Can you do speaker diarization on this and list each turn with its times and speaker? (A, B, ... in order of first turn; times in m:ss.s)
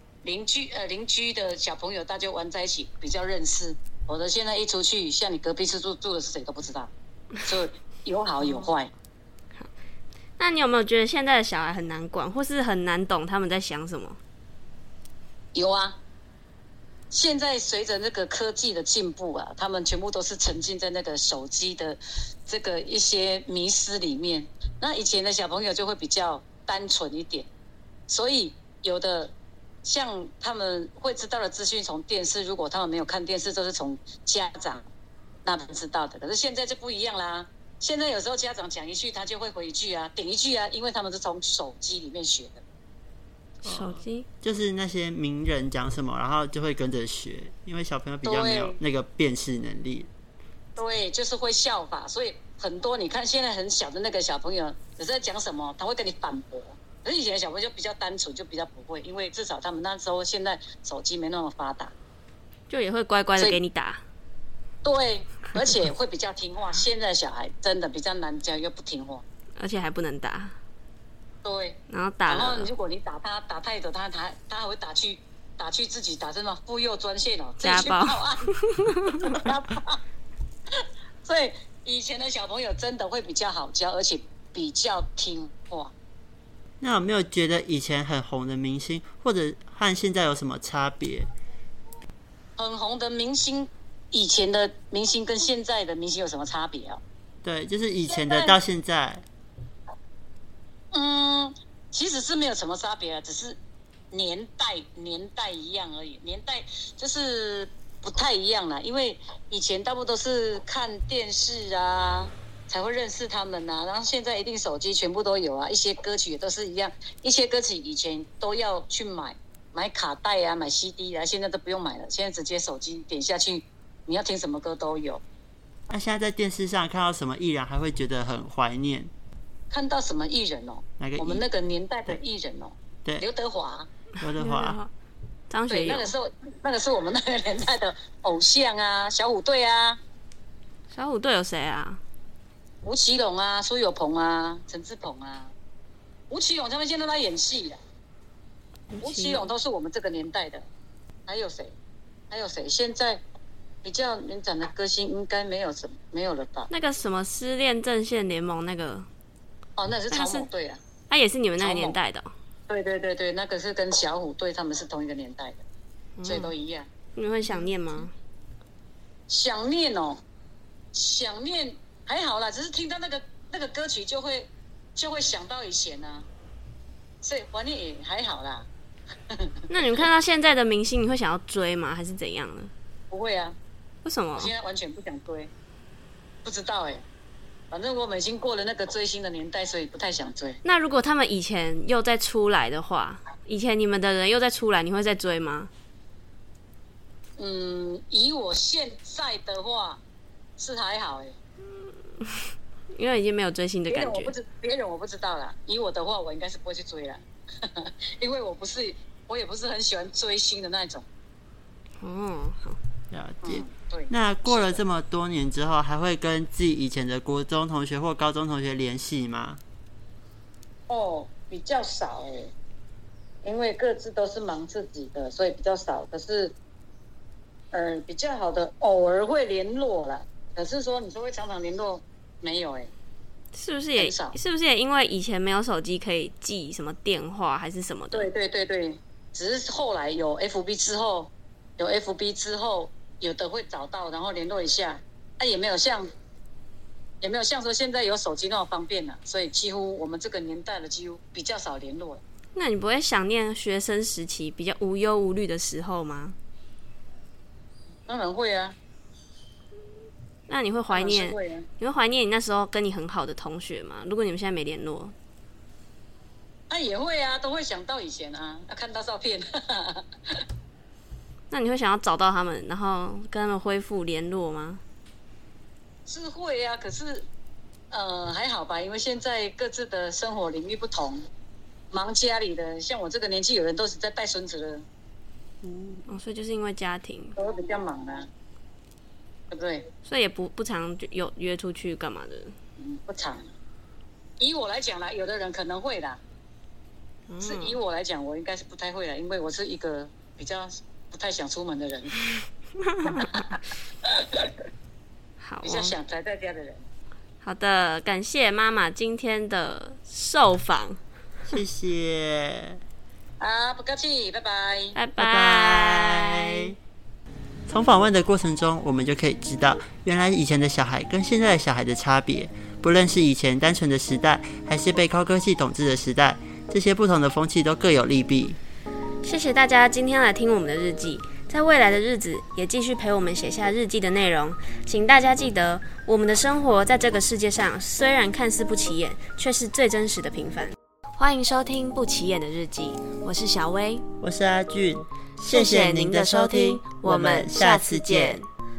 0:00.2-0:06.9 A
0:07.5-0:08.9 A
0:08.4-0:08.7 B
0:10.4-0:14.2 B
0:15.5-0:16.0 A
0:17.1-0:27.5 A
0:28.1-0:34.8 A
0:35.4-0:42.6 A
0:43.6-0:44.3 B
0:43.6-0:50.1 C
0:48.2-0:48.8 A
0:50.8-1:01.9 A
1:02.7-1:04.0 B
1:04.8-1:09.2 A
1:09.6-1:10.6 B
1:11.4-1:18.5 A
1:11.9-1:12.7 B
1:17.6-1:19.4 B
1:19.3-1:20.0 A
1:21.2-1:25.9 A
1:26.8-1:31.3 C
1:32.6-1:37.0 A
1:37.4-1:39.2 C
1:38.1-1:38.6 A
1:40.9-1:43.6 A
1:44.1-2:05.2 A
2:05.9-2:09.1 C
2:09.7-2:13.9 A
2:11.0-2:11.4 C
2:14.2-2:14.8 C
2:14.4-2:14.9 B
2:15.5-2:16.1 B
2:15.7-2:20.0 A
2:20.9-2:22.0 B
2:22.8-2:25.5 A
2:26.3-2:27.8 A
2:28.9-2:29.5 B
2:29.0-2:30.6 A
2:31.3-2:31.8 A
2:32.3-2:33.2 A
2:33.8-2:36.7 A
2:36.7-2:39.1 B
2:39.8-2:40.8 A
2:40.1-2:40.5 B
2:41.1-2:42.3 B
2:41.6-2:42.0 A
2:42.7-2:45.6 A
2:46.2-2:46.5 B
2:46.2-2:46.9 A
2:47.2-2:48.1 B
2:49.3-2:50.2 A
2:50.9-2:56.3 A
2:57.2-2:58.7 A
2:59.7-3:02.7 B
3:03.1-3:03.6 A
3:04.0-3:04.5 B
3:04.4-3:05.5 A
3:06.4-3:07.0 A
3:07.7-3:10.6 A
3:10.6-3:15.7 B
3:17.4-3:20.0 A
3:20.6-3:21.4 A
3:22.9-3:24.3 B
3:23.9-3:31.1 A
3:32.0-3:32.8 B
3:33.1-3:39.6 C
3:33.4-3:34.8 A
3:40.9-3:42.5 A
3:43.4-3:46.5 A
3:47.7-3:52.9 A
3:53.5-3:58.3 B
3:54.0-3:54.4 A
3:58.1-4:06.1 A
4:07.2-4:12.2 A
4:12.6-4:16.4 B
4:18.1-4:18.8 A
4:20.5-4:25.1 B
4:20.9-4:21.7 A
4:26.7-4:30.1 A
4:31.5-4:34.8 B
4:36.1-4:37.3 A
4:37.9-4:41.3 A
4:41.9-4:44.9 A
4:45.6-4:47.4 B
4:47.4-4:48.3 A
4:49.5-4:49.8 A
4:50.0-4:52.5 B
4:52.8-4:53.5 A
4:54.4-4:56.2 A
4:57.3-4:57.8 B
4:57.4-5:02.2 A
5:03.1-5:04.5 A
5:05.4-5:06.0 B
5:05.6-5:06.9 A
5:07.4-5:11.0 B
5:11.5-5:12.8 C
5:13.4-5:15.0 A
5:15.0-5:16.7 B
5:15.2-5:16.6 C
5:17.7-5:28.6 C
5:29.2-5:44.1 B
5:44.2-5:48.4 C
5:45.4-5:48.5 B